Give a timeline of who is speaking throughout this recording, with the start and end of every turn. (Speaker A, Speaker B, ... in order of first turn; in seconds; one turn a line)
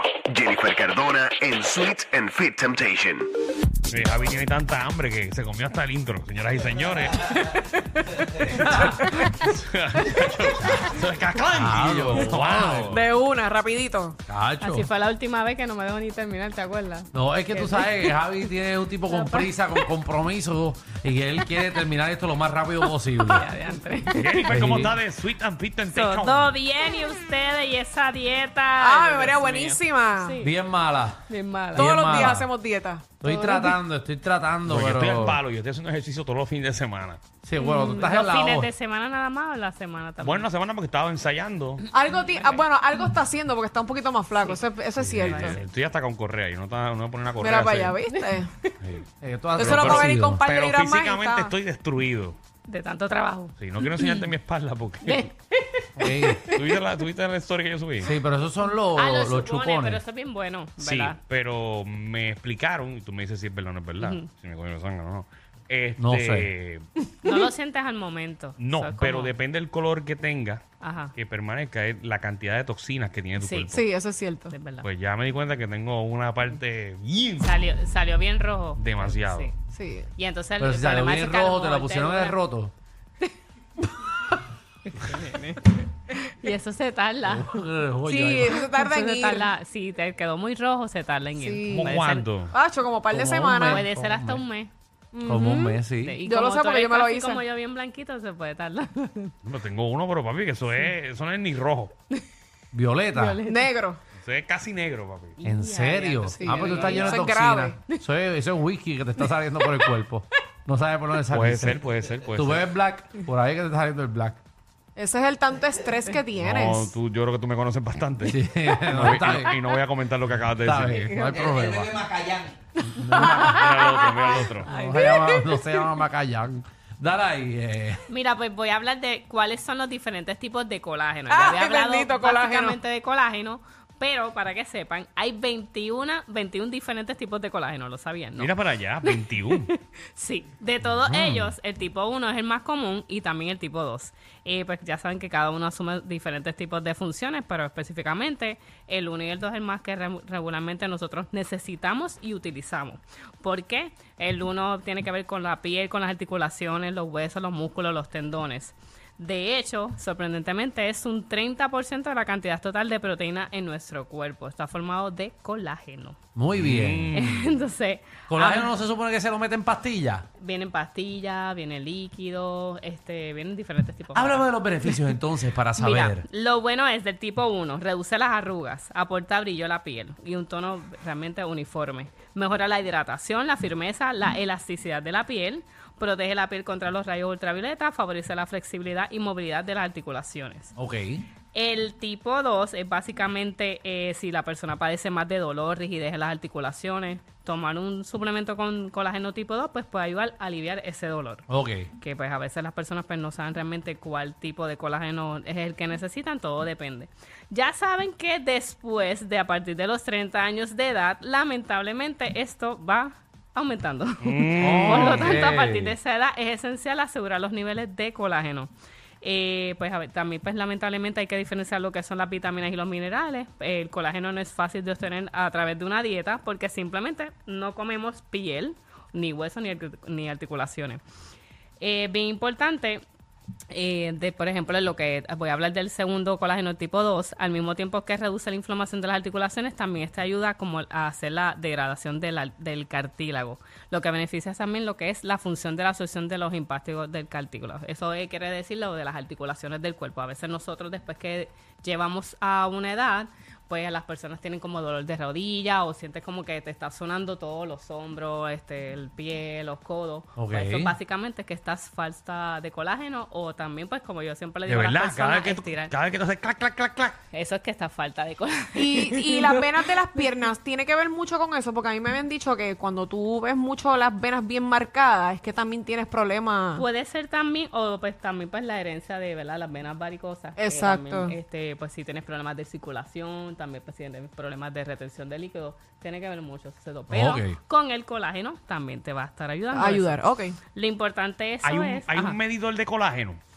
Speaker A: 0.3-3.3
Speaker B: 3.9-7.6
Speaker C: 8.3-9.3
Speaker B: 8.5-13.1
Speaker D: 11.5-13.0
Speaker C: 12.9-14.2
Speaker D: 14.3-14.9
Speaker E: 14.6-18.1
Speaker D: 17.1-23.5
Speaker E: 19.1-19.5
Speaker E: 23.1-24.8
Speaker B: 24.1-26.5
Speaker D: 24.5-25.0
Speaker E: 25.9-30.5
Speaker C: 28.8-30.4
Speaker D: 30.4-32.5
Speaker E: 31.3-32.3
Speaker C: 31.8-33.7
Speaker D: 33.2-35.4
Speaker B: 34.7-37.2
Speaker D: 37.4-38.7
Speaker C: 37.6-38.0
Speaker E: 37.6-40.5
Speaker B: 40.2-41.8
Speaker C: 41.9-45.6
Speaker E: 42.1-42.6
Speaker D: 45.1-45.4
Speaker B: 45.1-48.0
Speaker E: 45.2-45.6
Speaker C: 47.4-48.5
Speaker D: 49.2-50.4
Speaker C: 49.6-51.5
Speaker B: 49.6-52.4
Speaker E: 52.7-54.3
Speaker B: 53.6-55.3
Speaker E: 55.0-56.8
Speaker D: 56.0-56.4
Speaker B: 56.5-58.2
Speaker D: 58.0-60.0
Speaker E: 58.9-61.2
Speaker B: 60.8-66.8
Speaker E: 64.0-64.3
Speaker D: 66.0-66.5
Speaker E: 67.2-69.3
Speaker B: 68.6-70.6
Speaker E: 70.8-71.1
Speaker B: 71.1-73.8
Speaker E: 73.4-73.8
Speaker C: 73.7-74.5
Speaker E: 74.5-74.9
Speaker B: 74.8-77.6
Speaker E: 77.4-79.5
Speaker B: 78.8-79.5
Speaker C: 79.7-80.1
Speaker E: 80.2-82.4
Speaker D: 80.6-82.7
Speaker E: 84.9-87.6
Speaker D: 87.2-88.6
Speaker C: 88.1-89.5
Speaker E: 88.7-92.3
Speaker C: 91.4-92.0
Speaker B: 91.7-92.5
Speaker C: 92.5-93.8
Speaker D: 93.1-94.4
Speaker E: 93.7-94.7
Speaker C: 95.1-97.4
Speaker D: 95.3-96.2
Speaker E: 96.0-99.3
Speaker B: 99.4-101.9
Speaker D: 102.7-103.4
Speaker E: 103.1-103.7
Speaker C: 103.4-104.0
Speaker B: 104.2-105.4
Speaker E: 105.4-107.3
Speaker D: 105.4-114.4
Speaker C: 106.4-107.8
Speaker B: 106.6-106.9
Speaker B: 111.3-112.7
Speaker C: 115.0-117.0
Speaker B: 116.3-121.2
Speaker D: 118.2-119.6
Speaker D: 120.6-122.1
Speaker B: 122.2-122.4
Speaker D: 122.9-123.9
Speaker C: 123.0-124.4
Speaker B: 123.4-124.7
Speaker D: 124.6-128.0
Speaker E: 124.7-125.3
Speaker E: 128.1-138.5
Speaker C: 131.3-132.8
Speaker B: 138.4-139.7
Speaker E: 139.0-166.2
Speaker D: 141.1-141.5
Speaker D: 166.3-167.1
Speaker B: 166.6-167.6
Speaker E: 167.1-168.7
Speaker D: 168.3-170.3
Speaker E: 170.4-175.1
Speaker D: 174.1-176.3
Speaker E: 175.7-190.7
Speaker D: 190.8-191.2
Speaker E: 191.5-201.4
Speaker D: 201.5-201.9
Speaker E: 201.9-218.7
Speaker B: 214.2-215.4
Speaker D: 214.6-215.9
Speaker E: 219.2-231.0
Speaker E: 231.8-233.0
Speaker E: 233.7-265.9
Speaker D: 260.4-260.9
Speaker B: 264.7-267.2
Speaker E: 267.3-270.2
Speaker C: 268.7-276.8
Speaker E: 276.7-290.2
Speaker C: 280.6-281.3
Speaker D: 287.1-287.6
Speaker C: 289.7-290.6
Speaker E: 290.7-292.4
Speaker B: 291.6-293.4